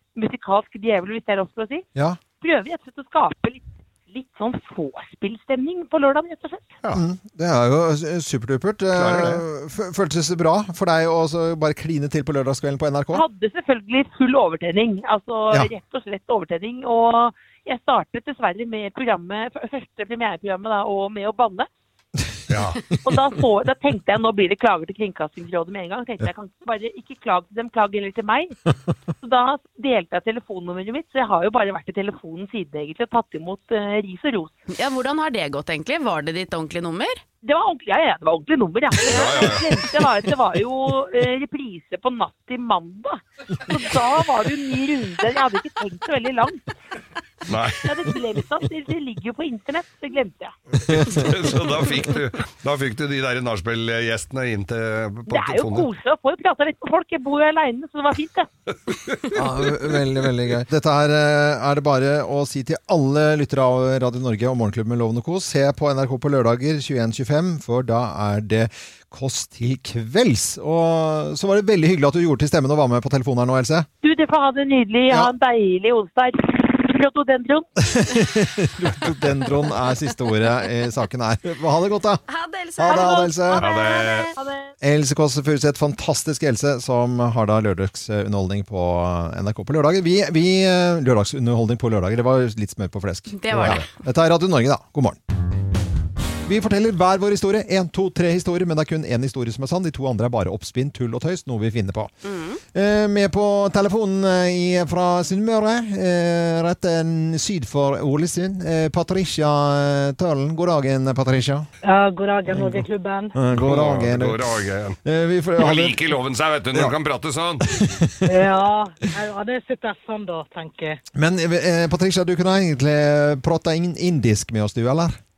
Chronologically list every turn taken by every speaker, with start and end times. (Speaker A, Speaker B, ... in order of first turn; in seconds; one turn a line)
Speaker A: 0.1-1.8
Speaker B: 1.9-2.2
Speaker A: 2.4-6.8
Speaker B: 6.9-13.2
Speaker C: 8.9-9.4
Speaker A: 13.1-21.7
Speaker C: 22.5-22.9
Speaker A: 23.0-28.6
Speaker A: 29.2-34.5
Speaker D: 34.7-37.2
Speaker A: 37.4-46.7
Speaker C: 39.1-39.7
Speaker C: 47.5-47.9
Speaker A: 47.8-50.5
Speaker B: 50.9-51.4
Speaker C: 50.9-55.9
Speaker A: 55.3-58.5
Speaker B: 59.3-73.9
Speaker A: 74.0-77.7
Speaker B: 77.8-82.2
Speaker D: 82.3-84.3
Speaker B: 82.8-83.7
Speaker C: 83.6-84.3
Speaker A: 84.4-84.7
Speaker B: 84.8-95.2
Speaker D: 93.3-93.9
Speaker C: 93.5-93.8
Speaker B: 96.5-102.1
Speaker D: 102.2-102.6
Speaker B: 102.7-111.7
Speaker E: 111.8-113.4
Speaker B: 112.5-116.1
Speaker C: 113.5-115.0
Speaker C: 115.6-117.9
Speaker B: 117.6-118.5
Speaker E: 118.3-121.0
Speaker B: 121.1-125.2